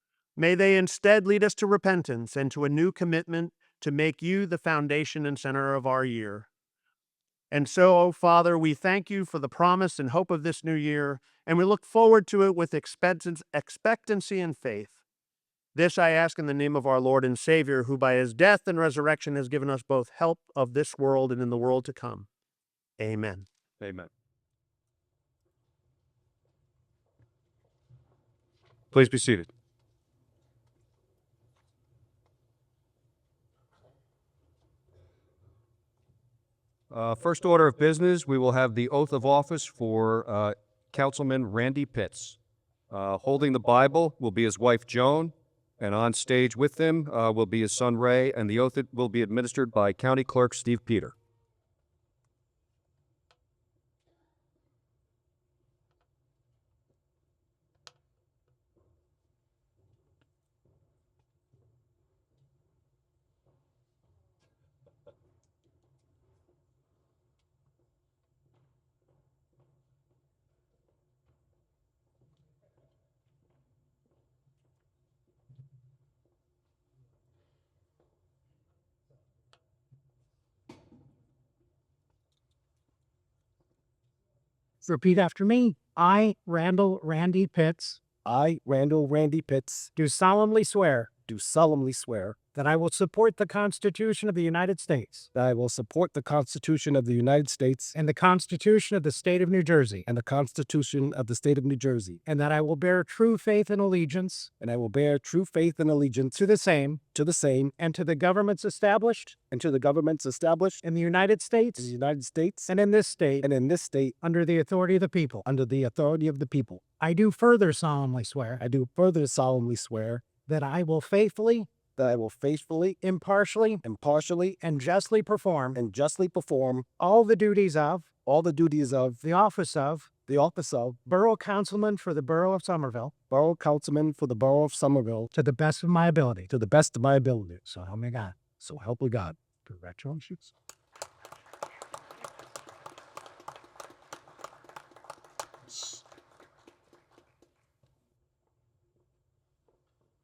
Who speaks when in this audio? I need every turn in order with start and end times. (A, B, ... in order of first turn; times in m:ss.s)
0:00.4-0:06.5 A
0:07.5-0:15.0 A
0:15.7-0:22.3 A
0:23.0-0:23.4 A
0:23.8-0:24.1 B
0:28.9-0:29.5 B
0:36.9-0:42.4 B
0:42.9-0:51.1 B
1:24.8-1:28.0 C
1:28.2-1:29.9 D
1:29.9-1:31.1 C
1:31.3-1:32.4 D
1:32.5-1:35.3 C
1:35.3-1:38.0 D
1:37.9-1:40.1 C
1:40.1-1:42.2 D
1:42.2-1:44.5 C
1:44.6-1:46.4 D
1:46.3-1:47.0 C
1:47.1-1:47.7 D
1:47.8-1:49.4 C
1:49.5-1:50.8 D
1:50.8-1:51.9 C
1:51.8-1:52.7 D
1:52.7-1:53.5 C
1:53.4-1:54.1 D
1:54.2-1:55.4 C
1:55.4-1:56.8 D
1:57.0-1:58.6 C
1:58.6-2:00.2 D
2:00.4-2:01.7 C
2:02.0-2:03.0 D
2:03.0-2:03.8 C
2:03.8-2:04.6 D
2:04.6-2:05.8 C
2:05.7-2:06.8 D
2:07.0-2:08.1 C
2:08.2-2:09.2 D
2:09.2-2:10.1 C
2:10.3-2:11.0 D
2:11.0-2:13.1 C
2:13.3-2:15.3 D
2:15.3-2:16.5 C
2:16.5-2:17.6 D
2:17.6-2:20.5 C